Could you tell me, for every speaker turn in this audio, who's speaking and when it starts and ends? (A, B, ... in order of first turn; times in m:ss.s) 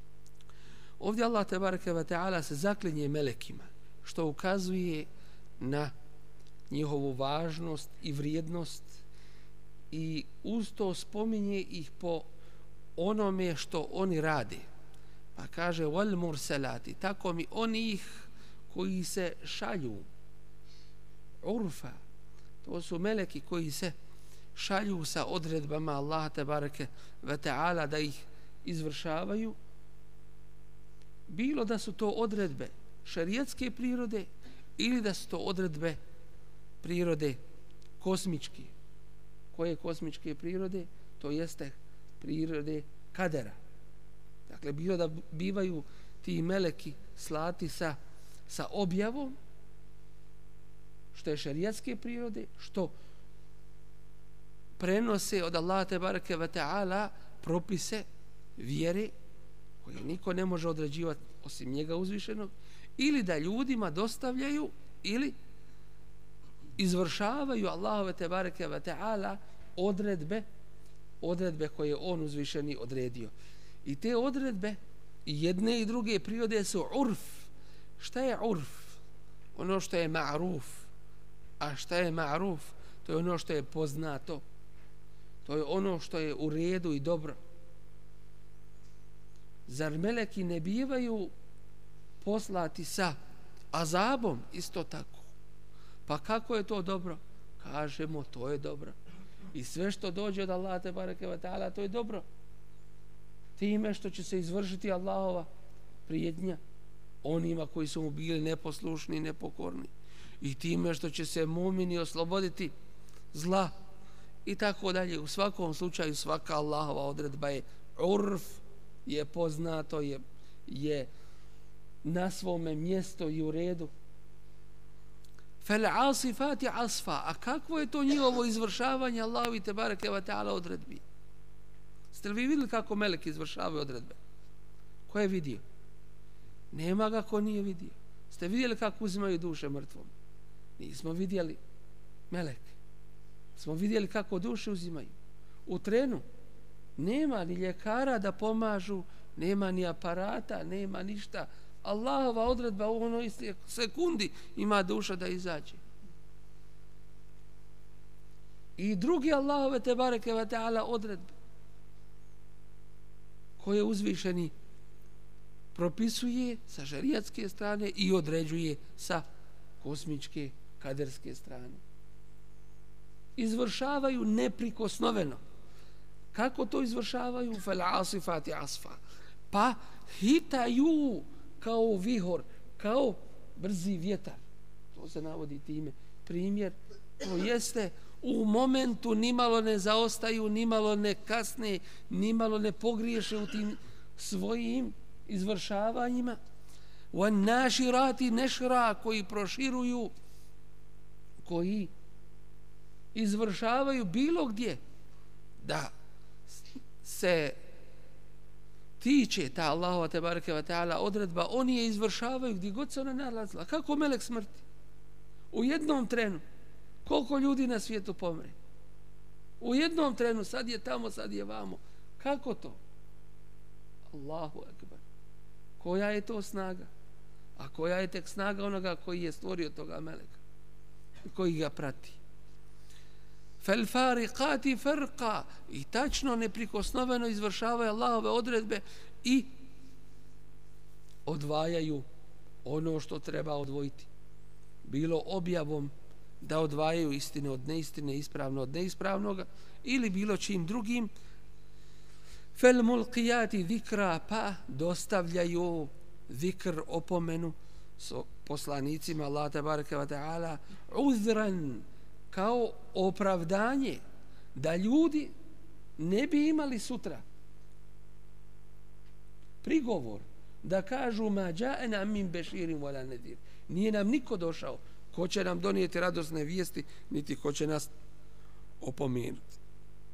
0:01.0-0:05.1 A
0:05.6-0:05.9 A
0:06.7-0:09.0 A
0:09.9-0:12.3 A
0:13.0-0:14.6 A
0:15.3-0:20.1 A
0:21.4-0:22.0 A
0:22.6-0:23.9 A
0:24.5-0:29.6 A
0:31.3-0:36.0 A
0:36.8-0:37.4 A
0:38.0-0:38.7 A
0:39.5-0:43.6 A
0:44.5-0:48.0 A
0:48.5-0:49.3 A
0:51.1-0:52.9 A
0:54.8-0:58.0 A
0:58.6-0:59.1 A
0:59.8-1:05.3 A
1:06.8-1:10.4 A
1:11.2-1:13.3 A
1:13.8-1:19.0 A
1:19.5-1:20.9 A
1:21.6-1:24.4 A
1:25.4-1:27.4 A
1:29.7-1:31.3 A
1:32.2-1:33.1 A
1:33.7-1:35.3 A
1:36.1-1:39.0 A
1:39.5-1:42.2 A
1:43.6-1:45.5 A
1:46.0-1:46.6 A
1:47.2-1:52.7 A
1:53.3-1:53.7 A
1:54.4-2:01.1 A
2:02.0-2:03.9 A
2:05.6-2:11.0 A
2:12.1-2:14.2 A
2:15.1-2:15.6 A
2:16.7-2:20.1 A
2:20.8-2:21.6 A
2:22.3-2:22.7 A
2:23.6-2:25.1 A
2:25.7-2:26.2 A
2:27.0-2:35.8 A
2:38.8-2:41.3 A
2:43.6-2:44.5 A
2:45.7-2:49.2 A
2:49.8-2:51.8 A
2:53.4-2:55.4 A
2:56.3-2:59.0 A
2:59.5-3:04.4 A
3:04.9-3:16.4 A
3:17.1-3:20.1 A
3:21.4-3:21.9 A
3:23.1-3:24.8 A
3:25.6-3:25.9 A
3:27.0-3:27.6 A
3:29.0-3:34.6 A
3:35.5-3:36.4 A
3:37.0-3:38.6 A
3:39.6-3:42.8 A
3:44.1-3:45.0 A
3:45.8-3:46.9 A
3:47.6-3:50.4 A
3:51.2-3:52.2 A
3:53.6-3:59.5 A
4:01.2-4:02.0 A
4:02.6-4:04.1 A
4:04.8-4:11.1 A
4:12.5-4:24.0 A
4:24.5-4:25.3 A
4:26.0-4:27.2 A
4:29.6-4:37.9 A
4:38.8-4:39.4 A